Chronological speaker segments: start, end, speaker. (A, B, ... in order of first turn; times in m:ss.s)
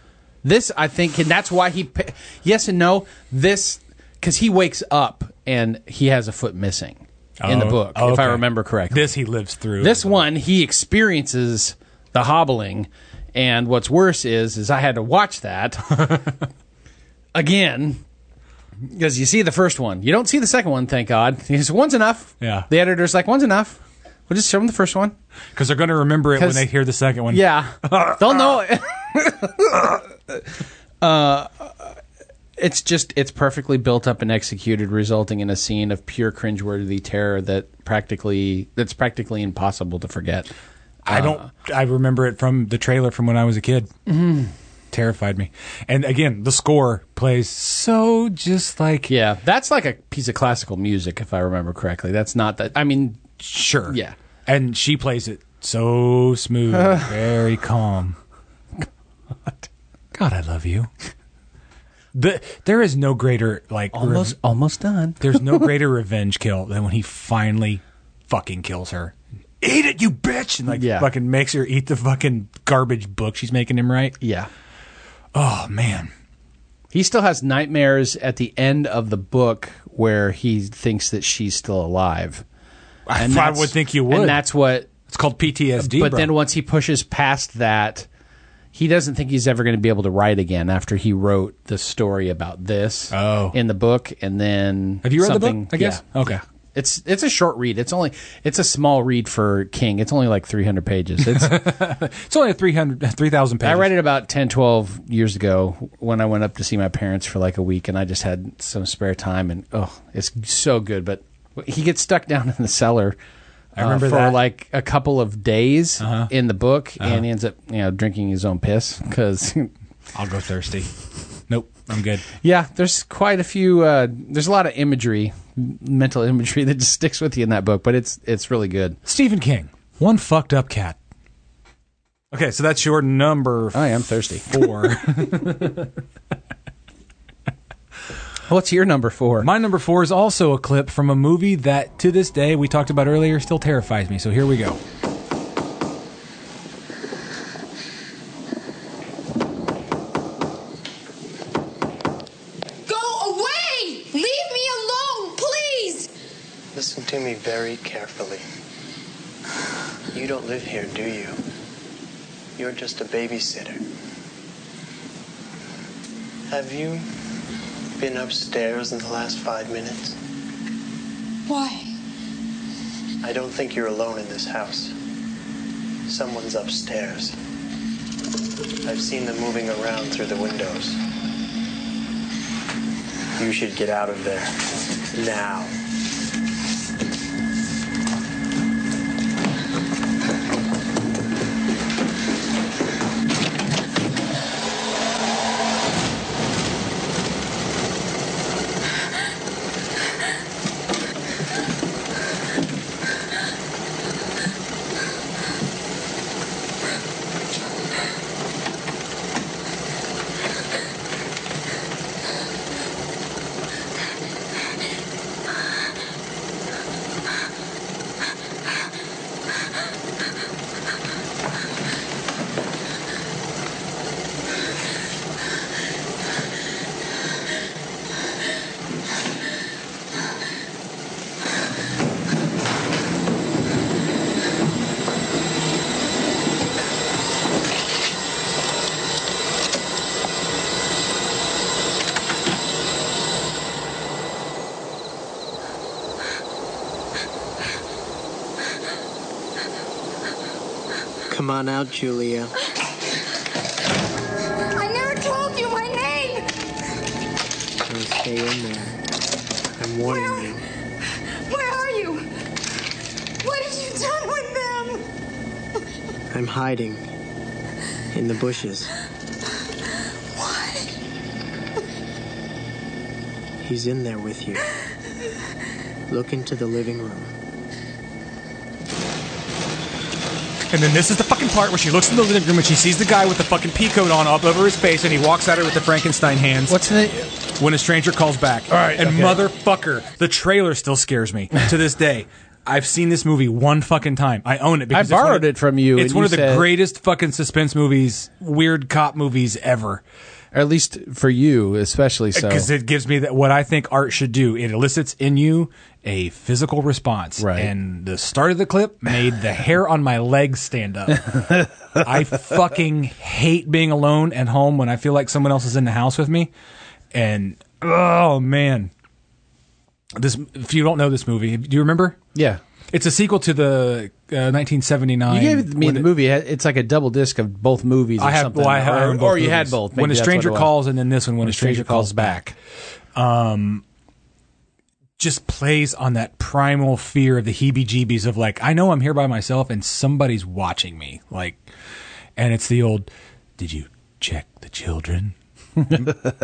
0:00.4-0:09.2 A
0:07.4-0:10.2 B
0:09.8-0:16.2 A
0:16.0-0:16.3 B
0:17.3-0:18.0 A
0:18.8-0:25.2 A
0:22.4-0:22.7 B
0:25.5-0:28.5 B
0:26.4-0:26.7 A
0:27.3-0:30.4 A
0:31.0-0:32.0 A
0:32.6-0:40.5 A
0:41.0-0:41.5 A
0:41.1-0:43.9 B
0:44.1-0:44.5 A
0:44.9-0:49.1 B
0:49.1-0:54.1 A
0:53.4-0:58.2 B
0:56.7-0:57.1 A
1:00.1-1:00.9 B
1:02.1-1:04.4 B
1:03.9-1:05.7 A
1:05.2-1:14.2 B
1:10.7-1:11.1 A
1:14.2-1:14.5 A
1:15.3-1:16.1 B
1:16.9-1:22.4 A
1:23.1-1:24.4 B
1:23.2-1:24.9 A
1:25.0-1:26.3 B
1:25.8-1:28.1 A
1:28.7-1:41.7 A
1:33.1-1:33.6 B
1:35.0-1:36.4 B
1:41.2-1:44.0 B
1:43.6-1:53.2 A
1:53.8-1:54.4 B
1:53.8-1:59.7 A
1:56.0-1:56.3 B
2:00.1-2:00.9 B
2:01.5-2:02.2 B
2:02.4-2:09.0 A
2:09.0-2:11.0 B
2:12.3-2:15.9 B
2:13.7-2:15.3 A
2:18.5-2:19.5 A
2:19.4-2:24.8 B
2:32.8-2:36.1 C
2:36.7-2:38.4 D
2:40.1-2:41.4 D
2:42.6-2:43.8 D
2:46.5-2:47.0 D
2:48.0-2:50.2 D
2:51.5-2:51.9 C
2:53.2-2:54.9 D
2:56.1-2:57.4 D
2:58.8-3:01.0 D
3:03.4-3:04.5 D
3:05.1-3:05.7 D
4:11.3-4:12.5 D
4:14.7-4:16.5 C
4:17.9-4:18.8 D
4:19.8-4:20.6 D
4:20.1-4:20.4 C
4:21.4-4:22.3 C
4:23.4-4:25.0 C
4:26.3-4:27.0 D
4:28.2-4:28.9 D
4:30.3-4:30.9 C
4:33.6-4:34.6 D
4:36.1-4:37.3 D
4:40.7-4:46.9 B
4:46.7-4:47.3 A
4:47.5-5:00.0 B
4:48.7-4:49.4 A
4:54.9-4:56.7 A
5:00.5-5:02.7 A
5:02.3-5:16.5 B
5:07.4-5:07.7 A
5:17.1-5:18.9 B
5:20.1-5:22.2 B
5:22.3-5:22.6 A
5:22.9-5:26.1 B
5:25.3-5:30.8 A
5:28.2-5:32.5 B
5:31.4-5:32.5 A
5:33.1-5:33.8 B
5:35.2-5:41.6 B
5:42.4-5:45.3 B